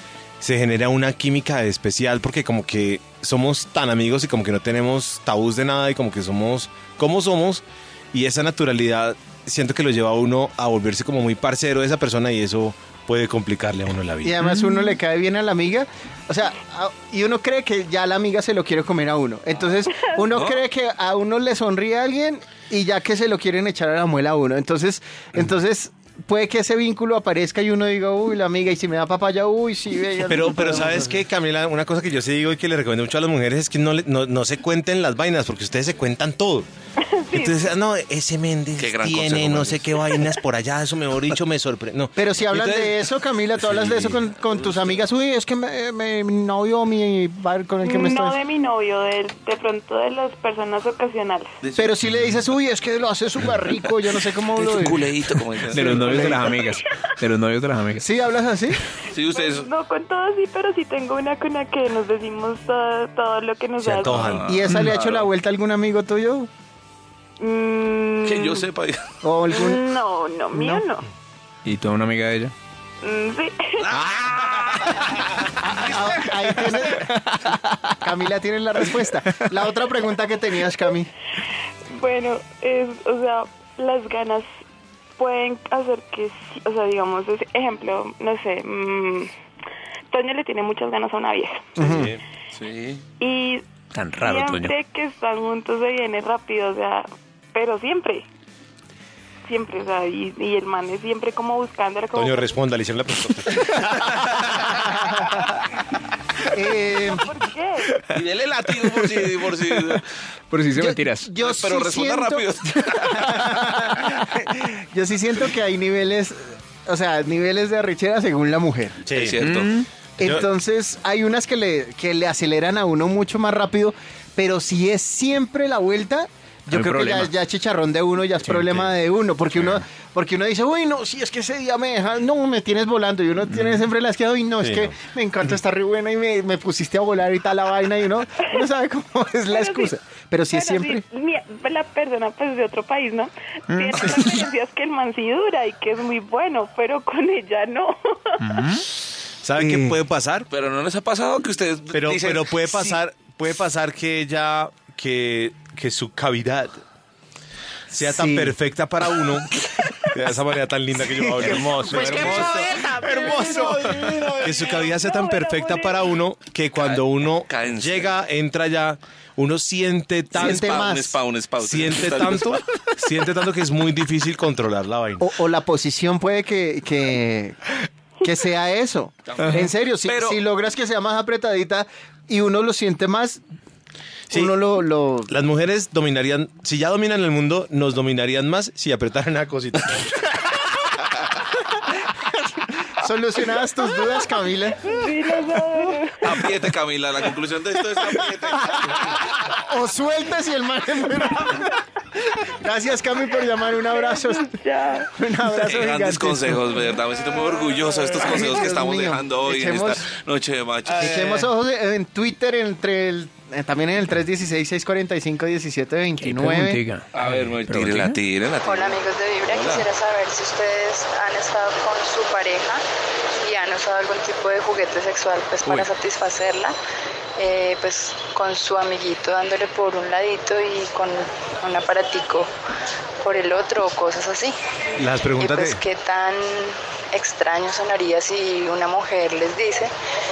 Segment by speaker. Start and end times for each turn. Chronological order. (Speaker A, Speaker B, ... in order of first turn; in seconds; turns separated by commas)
Speaker A: 0.4-14.4, Speaker B: 14.2-31.1, Speaker C: 14.4-14.8, Speaker D: 20.3-20.6, Speaker A: 30.3-36.7, Speaker E: 37.2-37.6, Speaker A: 37.3-42.1, Speaker D: 38.8-40.2, Speaker B: 42.1-48.4, Speaker D: 42.5-42.9, Speaker A: 43.6-44.2, Speaker D: 44.5-44.9, Speaker E: 47.8-51.5, Speaker D: 51.6-51.9, Speaker B: 51.8-55.0, Speaker D: 54.5-56.6, Speaker B: 55.7-56.5, Speaker C: 55.7-58.1, Speaker B: 58.0-58.8, Speaker D: 59.1-59.7, Speaker E: 59.3-64.4, Speaker A: 63.8-64.4, Speaker D: 64.0-65.3, Speaker B: 64.5-66.5, Speaker E: 67.4-68.7, Speaker D: 68.2-69.1, Speaker B: 69.2-69.8, Speaker E: 69.5-71.0, Speaker B: 70.5-70.8, Speaker C: 71.6-72.5, Speaker E: 73.0-73.8, Speaker B: 75.6-81.1, Speaker E: 81.9-84.5, Speaker E: 85.2-89.3, Speaker E: 90.1-92.0, Speaker B: 91.8-92.1, Speaker A: 91.8-92.2, Speaker D: 92.6-93.0, Speaker E: 93.2-93.6, Speaker C: 93.9-94.7, Speaker E: 94.2-98.2, Speaker E: 99.5-102.5, Speaker A: 102.1-103.7, Speaker B: 104.8-105.4, Speaker B: 106.5-107.2, Speaker E: 106.8-108.0, Speaker D: 108.1-110.0, Speaker C: 110.5-111.3, Speaker B: 110.8-112.5, Speaker D: 111.4-113.3, Speaker B: 113.0-119.0, Speaker A: 119.0-119.4, Speaker D: 119.1-119.7, Speaker C: 119.4-119.9, Speaker B: 120.2-141.0, Speaker C: 126.7-127.3, Speaker C: 128.4-128.9, Speaker C: 133.5-133.8, Speaker A: 134.6-134.9, Speaker E: 139.5-139.9, Speaker E: 140.5-148.3, Speaker C: 143.7-144.4, Speaker C: 148.4-148.8, Speaker A: 149.4-150.4, Speaker B: 149.6-150.0, Speaker D: 150.5-153.0, Speaker A: 151.9-156.8, Speaker B: 157.9-158.5, Speaker A: 157.9-159.5, Speaker A: 160.1-163.8, Speaker B: 161.3-163.9, Speaker C: 161.6-162.1, Speaker D: 161.9-164.9, Speaker E: 163.1-163.5, Speaker A: 164.4-170.9, Speaker E: 164.7-166.1, Speaker D: 166.8-168.1, Speaker D: 170.3-172.6, Speaker B: 170.3-171.2, Speaker A: 171.6-175.3, Speaker B: 175.2-177.6, Speaker B: 178.2-183.4, Speaker D: 179.3-180.4, Speaker B: 184.3-185.3, Speaker A: 185.3-190.0, Speaker B: 193.0-194.8, Speaker E: 193.8-194.2, Speaker E: 194.8-196.4, Speaker D: 196.2-199.2, Speaker B: 198.0-204.5, Speaker E: 203.9-205.1, Speaker B: 205.1-206.6, Speaker D: 205.6-211.5, Speaker B: 208.1-210.0, Speaker B: 210.9-216.8, Speaker C: 216.2-218.2, Speaker D: 217.1-219.8, Speaker F: 218.6-222.8, Speaker F: 223.4-226.8, Speaker F: 227.4-232.5, Speaker F: 233.2-234.6, Speaker A: 235.0-235.8, Speaker F: 235.3-239.9